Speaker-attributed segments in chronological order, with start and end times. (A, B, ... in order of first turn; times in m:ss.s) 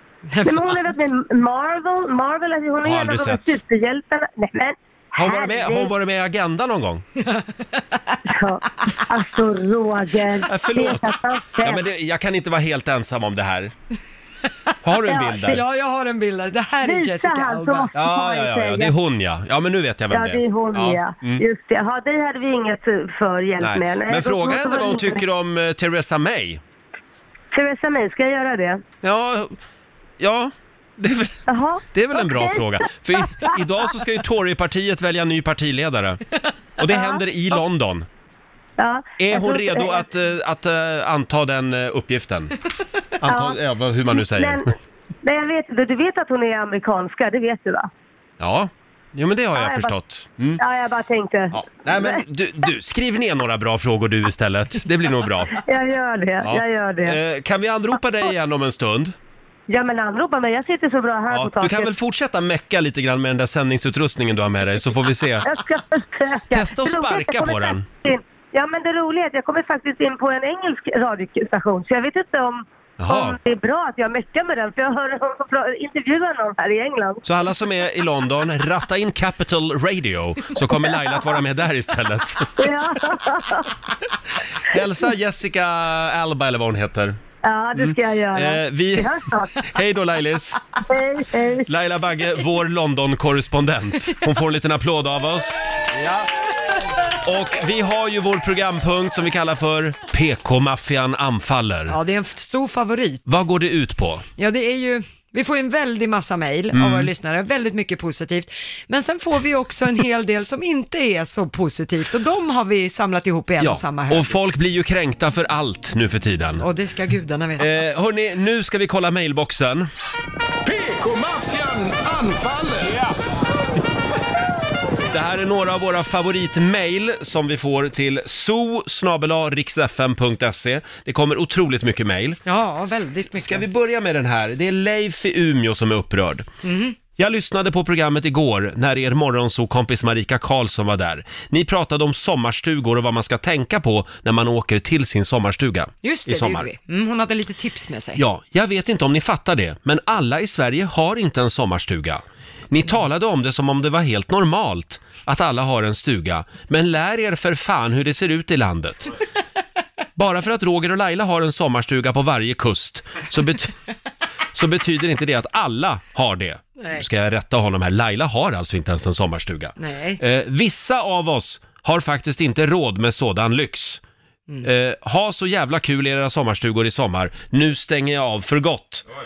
0:00.3-0:00.8 A
0:00.4-0:05.9 B
0:02.8-0:03.6 C
0:05.2-0:07.0 C
0:07.2-0:08.2 A
0:08.3-0:11.8 B
0:10.5-0:13.7 C
0:14.8-0:15.6 C
0:15.1-0:15.4 B
0:15.4-0:17.9 A
0:16.8-0:18.9 B
0:17.9-0:21.4 C
0:20.1-0:25.2 B
0:23.6-0:26.6 C
0:27.5-0:28.8 B
0:29.0-0:29.6 C
0:30.2-0:36.2 C
0:31.5-0:32.6 B
0:33.2-0:33.6 B
0:36.8-0:38.1 C
0:36.9-0:37.2 B
0:38.8-0:40.1 B
0:39.2-0:42.6 C
0:43.2-0:44.7 C
0:43.3-0:43.6 B
0:44.1-0:44.7 B
0:45.2-0:47.9 B
0:48.4-0:50.6 C
0:49.6-0:50.0 B
0:50.6-0:52.2 B
0:51.5-0:55.6 C
0:55.5-0:57.2 B
0:56.4-0:59.1 C
0:59.7-1:01.9 B
1:01.3-1:05.6 C
1:05.4-1:17.2 B
1:06.5-1:07.9 C
1:13.0-1:13.4 C
1:17.2-1:22.7 C
1:22.6-1:23.7 B
1:24.7-1:27.2 C
1:27.4-1:29.6 B
1:27.8-1:30.6 C
1:30.9-1:31.7 B
1:31.7-1:35.9 C
1:37.2-1:42.0 C
1:41.9-1:43.3 A
1:43.3-1:44.3 C
1:44.4-1:54.4 A
1:46.7-1:47.1 C
1:53.6-1:56.6 C
1:56.6-1:57.8 A
1:57.6-1:59.9 C
2:00.6-2:03.1 D
2:05.1-2:12.4 C
2:12.5-2:13.6 A
2:13.3-2:16.5 C
2:16.6-2:17.0 A
2:17.2-2:26.7 C
2:26.0-2:28.2 A
2:28.2-2:39.2 C
2:40.2-2:43.7 C
2:44.5-2:54.0 C
2:46.8-2:47.0 A
2:49.8-2:50.2 A
2:54.6-2:59.0 C